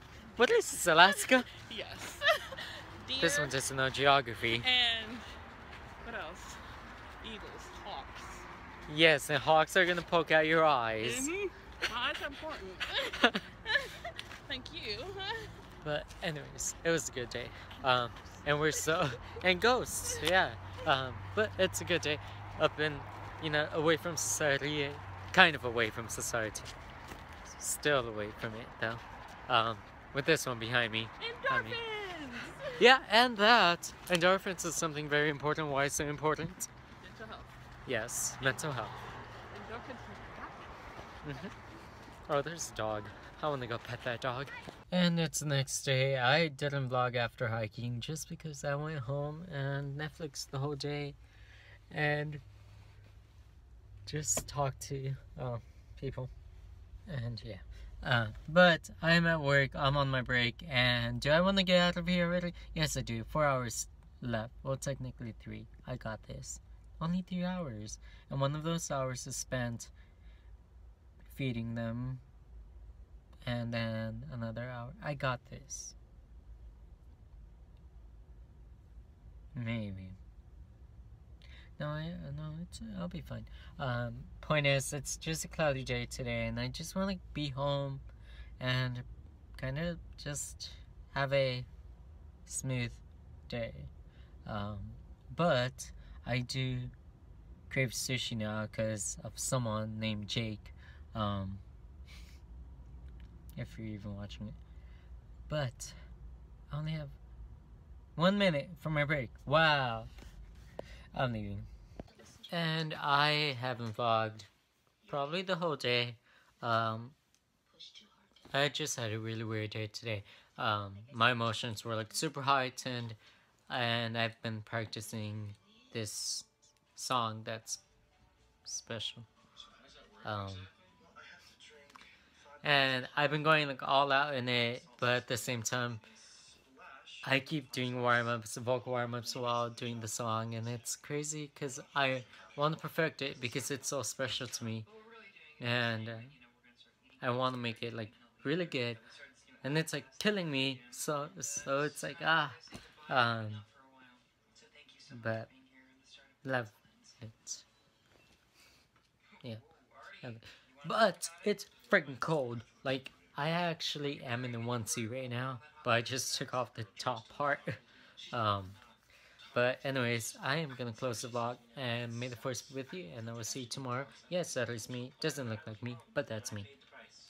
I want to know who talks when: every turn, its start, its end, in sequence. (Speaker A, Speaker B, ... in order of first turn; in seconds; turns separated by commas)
Speaker A: 0.4-1.5, Speaker B: 1.0-3.5, Speaker A: 3.2-4.7, Speaker B: 4.6-5.4, Speaker B: 6.0-6.6, Speaker B: 7.2-8.5, Speaker A: 8.9-11.3, Speaker B: 11.0-13.1, Speaker A: 13.1-13.5, Speaker B: 13.6-15.6, Speaker A: 15.8-26.7, Speaker A: 27.5-31.8, Speaker B: 31.2-32.8, Speaker A: 32.8-36.7, Speaker B: 37.0-37.5, Speaker A: 37.9-39.0, Speaker B: 39.5-40.8, Speaker A: 41.2-41.5, Speaker A: 42.3-51.2, Speaker A: 51.9-52.4, Speaker A: 54.1-56.3, Speaker A: 57.1-69.9, Speaker A: 71.3-72.2, Speaker A: 73.5-76.0, Speaker A: 79.5-80.2, Speaker A: 81.8-88.0, Speaker A: 88.6-91.7, Speaker A: 92.5-93.9, Speaker A: 94.5-96.9, Speaker A: 97.7-101.6, Speaker A: 103.6-104.6, Speaker A: 105.5-106.0, Speaker A: 106.7-107.2, Speaker A: 108.2-110.1, Speaker A: 111.1-111.7, Speaker A: 112.3-114.5, Speaker A: 115.0-117.2, Speaker A: 118.5-127.8, Speaker A: 128.7-129.3, Speaker A: 130.2-130.7, Speaker A: 132.6-136.1, Speaker A: 137.2-144.9, Speaker A: 145.6-146.4, Speaker A: 147.2-153.7, Speaker A: 155.0-155.6, Speaker A: 156.4-157.7, Speaker A: 160.2-168.8, Speaker A: 169.5-176.7